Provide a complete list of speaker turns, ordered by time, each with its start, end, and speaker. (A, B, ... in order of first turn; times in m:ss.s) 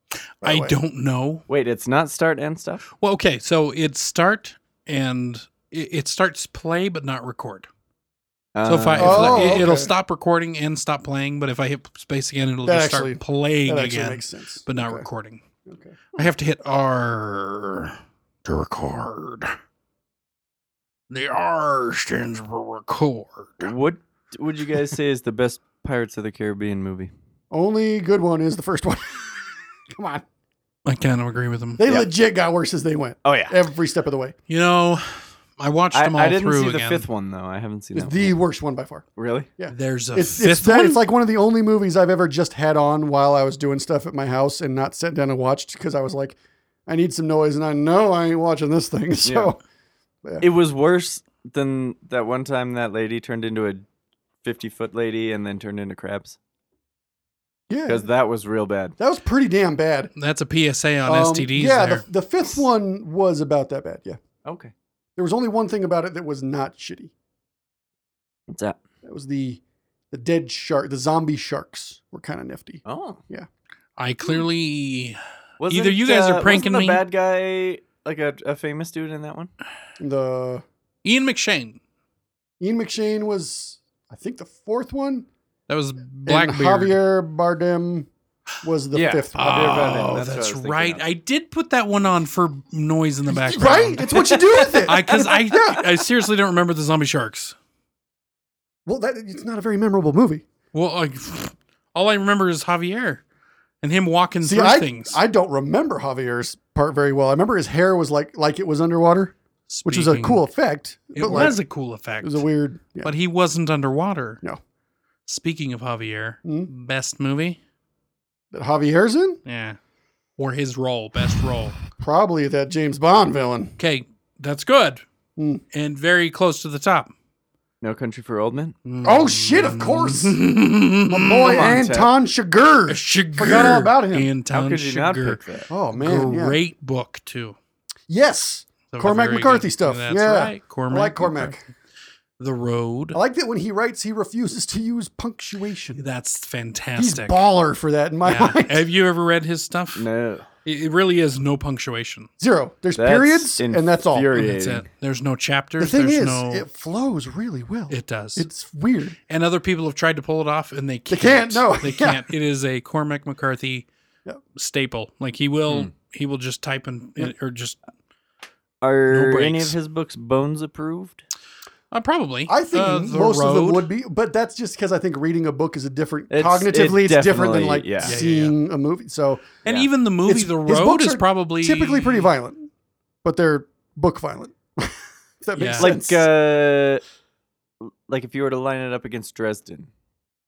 0:00.4-0:00.8 A
0:00.4-0:01.4 B
0:01.5-0:02.8 C
0:03.0-0:07.7 B
0:08.5-0:09.6 C
0:08.7-0:15.4 B
0:09.0-0:09.9 A
0:12.6-0:15.0 A
0:15.6-0:16.0 A
0:16.1-0:19.6 B
0:21.1-0:23.7 B
0:23.6-0:27.1 C
0:27.5-0:30.2 A
0:30.8-0:31.8 B
0:31.8-0:34.3 A
0:33.2-0:33.6 C
0:34.5-0:37.0 B
0:35.9-0:38.4 C
0:37.9-0:39.0 A
0:39.2-0:39.5 C
0:39.6-0:49.6 A
0:39.7-0:41.0 B
0:49.2-0:49.5 C
0:50.4-0:53.8 C
0:54.4-0:56.4 C
0:57.7-0:58.1 A
0:57.8-0:58.9 C
0:59.0-1:00.1 A
1:00.2-1:02.0 B
1:01.0-1:04.2 A
1:04.4-1:04.7 C
1:05.2-1:07.1 A
1:08.5-1:08.8 C
1:09.0-1:13.5 A
1:12.8-1:13.2 C
1:14.0-1:17.0 B
1:15.6-1:19.5 C
1:20.0-1:20.6 A
1:21.0-1:21.8 B
1:22.6-1:25.3 A
1:25.7-1:27.0 B
1:26.3-1:28.1 A
1:28.6-1:30.2 A
1:28.9-1:31.0 C
1:29.4-1:37.5 B
1:33.3-1:35.8 A
1:38.8-1:40.4 A
1:40.7-1:43.2 B
1:43.8-1:45.2 B
1:44.4-1:51.6 A
1:49.7-1:50.4 B
1:51.1-1:52.4 B
1:52.2-1:53.1 A
1:53.0-1:54.4 B
1:55.3-1:57.6 B
1:56.4-1:56.7 A
1:58.5-1:59.4 A
1:59.4-1:59.8 B
2:00.4-2:01.8 B
2:02.0-2:03.8 A
2:03.8-2:05.0 B
2:05.4-2:05.6 A
2:05.7-2:07.1 B
2:07.8-2:08.7 C
2:08.8-2:11.8 B
2:09.0-2:10.4 A
2:11.1-2:14.3 A
2:11.4-2:12.1 C
2:12.9-2:15.4 B
2:14.5-2:15.7 C
2:15.7-2:16.6 A
2:15.9-2:17.6 B
2:18.1-2:21.6 A
2:18.9-2:21.6 B
2:22.4-2:23.2 B
2:23.1-2:26.0 A
2:26.0-2:27.4 B
2:26.9-2:28.8 A
2:28.2-2:30.0 B
2:30.0-2:30.5 C
2:30.6-2:32.3 B
2:32.4-2:34.3 A
2:33.0-2:34.9 C
2:34.3-2:36.6 B
2:35.8-2:39.2 A
2:37.9-2:38.5 B
2:39.3-2:43.9 B
2:41.1-2:42.3 A
2:44.5-2:47.8 B
2:48.8-2:51.2 C
2:49.1-2:49.7 B
2:51.9-2:53.9 B
2:52.5-2:59.6 A
2:56.3-2:58.2 C
2:58.0-2:58.5 B
2:59.6-3:02.3 B
3:00.2-3:02.7 A
3:03.2-3:06.3 A
3:05.5-3:05.9 B
3:05.8-3:07.0 C
3:07.8-3:09.9 C